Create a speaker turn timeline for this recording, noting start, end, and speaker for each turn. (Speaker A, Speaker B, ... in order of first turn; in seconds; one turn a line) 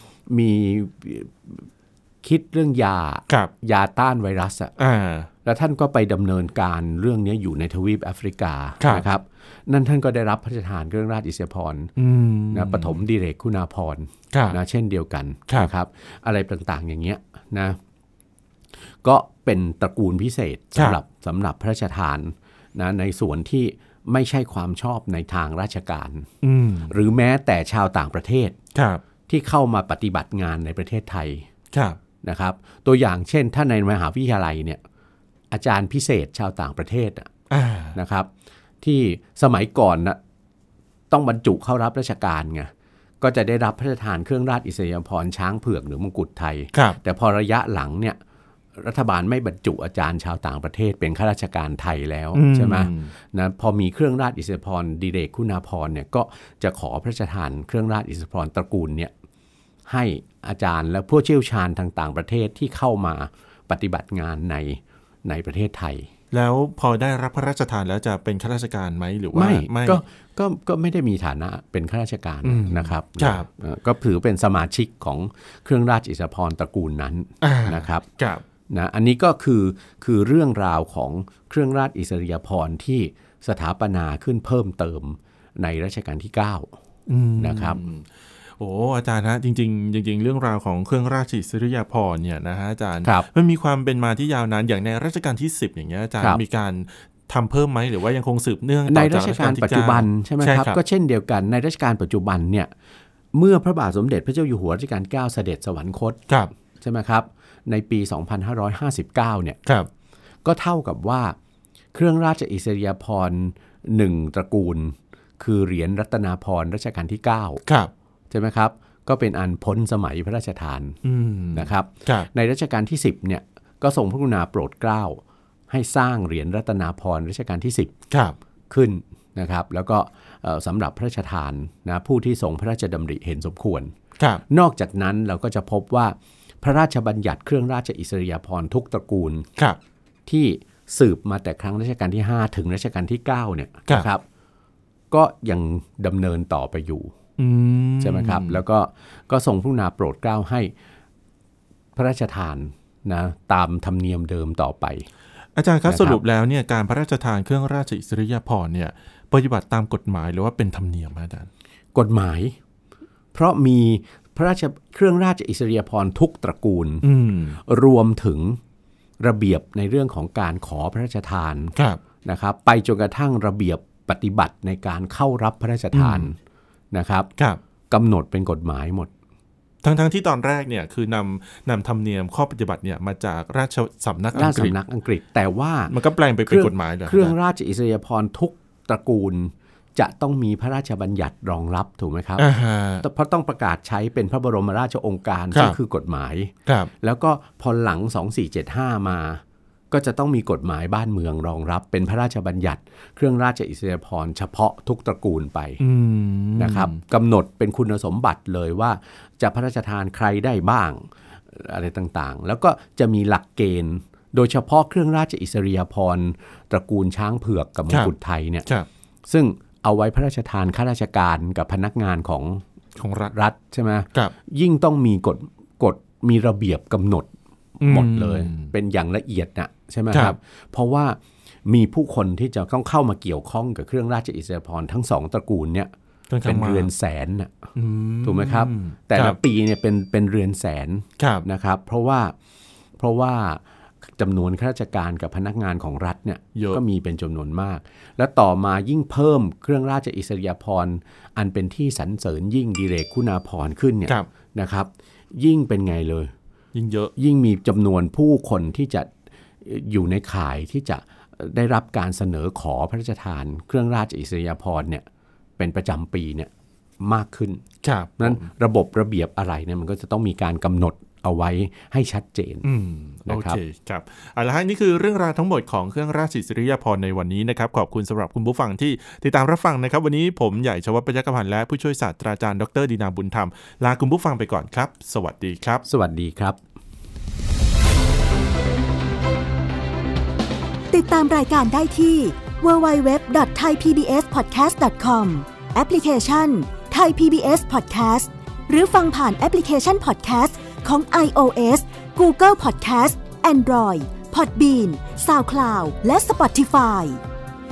Speaker A: 0.3-1.7
Speaker A: 2.2-4.7
Speaker B: 4.8-5.3
Speaker A: 5.4-11.9
Speaker B: 8.8-9.1
Speaker B: 12.0-13.0
Speaker A: 12.5-17.8
Speaker B: 14.3-14.6
Speaker A: 19.0-26.3
Speaker B: 26.4-26.9
Speaker A: 26.9-28.6
Speaker B: 28.8-29.0
Speaker A: 29.3-31.5
Speaker B: 31.7-32.0
Speaker A: 32.2-34.8
Speaker A: 35.5-37.3
Speaker B: 37.5-38.0
Speaker A: 37.9-38.3
Speaker A: 38.8-40.2
Speaker A: 41.1-42.7
Speaker A: 43.2-48.2
Speaker B: 46.7-47.0
Speaker A: 48.8-59.1
Speaker B: 52.3-53.1
Speaker A: 59.9-66.1
Speaker B: 66.3-70.0
Speaker A: 69.3-78.1
Speaker B: 72.4-73.5
Speaker B: 77.4-78.4
Speaker A: 78.7-86.7
Speaker B: 87.1-100.8
Speaker A: 87.4-87.8
Speaker A: 98.9-102.7
Speaker A: 103.3-106.2
Speaker A: 106.8-109.6
Speaker A: 110.5-111.3
Speaker A: 111.9-117.6
Speaker B: 117.7-117.9
Speaker A: 118.3-121.0
Speaker B: 121.0-122.3
Speaker A: 121.5-128.0
Speaker B: 128.1-128.4
Speaker A: 128.7-133.9
Speaker B: 134.2-134.4
Speaker A: 134.5-139.5
Speaker A: 140.3-144.2
Speaker A: 145.1-147.1
Speaker B: 147.4-148.6
Speaker A: 148.0-150.7
Speaker A: 151.9-155.1
Speaker B: 155.6-161.5
Speaker A: 155.9-156.2
Speaker A: 161.9-162.6
Speaker A: 163.3-167.1
Speaker B: 167.0-167.6
Speaker A: 167.6-168.6
Speaker A: 169.2-176.4
Speaker B: 171.8-172.0
Speaker B: 175.9-176.3
Speaker A: 176.9-177.3
Speaker A: 177.9-179.1
Speaker B: 179.8-184.8
Speaker A: 184.3-185.9
Speaker B: 185.9-187.4
Speaker A: 186.5-192.5
Speaker B: 192.4-193.0
Speaker A: 193.0-205.8
Speaker B: 205.8-207.0
Speaker A: 206.6-218.7
Speaker A: 219.3-222.6
Speaker B: 223.0-223.3
Speaker A: 223.3-227.3
Speaker A: 227.8-235.9
Speaker B: 227.8-228.7
Speaker B: 230.1-230.4
Speaker B: 236.3-236.9
Speaker A: 236.4-237.6
Speaker B: 237.8-239.4
Speaker A: 238.2-242.3
Speaker B: 241.2-241.4
Speaker A: 243.0-256.3
Speaker B: 246.6-246.8
Speaker B: 256.7-257.1
Speaker A: 257.2-259.1
Speaker A: 259.6-265.1
Speaker A: 265.6-267.7
Speaker B: 267.8-268.5
Speaker A: 268.2-272.7
Speaker B: 272.6-285.9
Speaker A: 273.3-273.6
Speaker A: 285.9-286.6
Speaker C: 290.9-307.2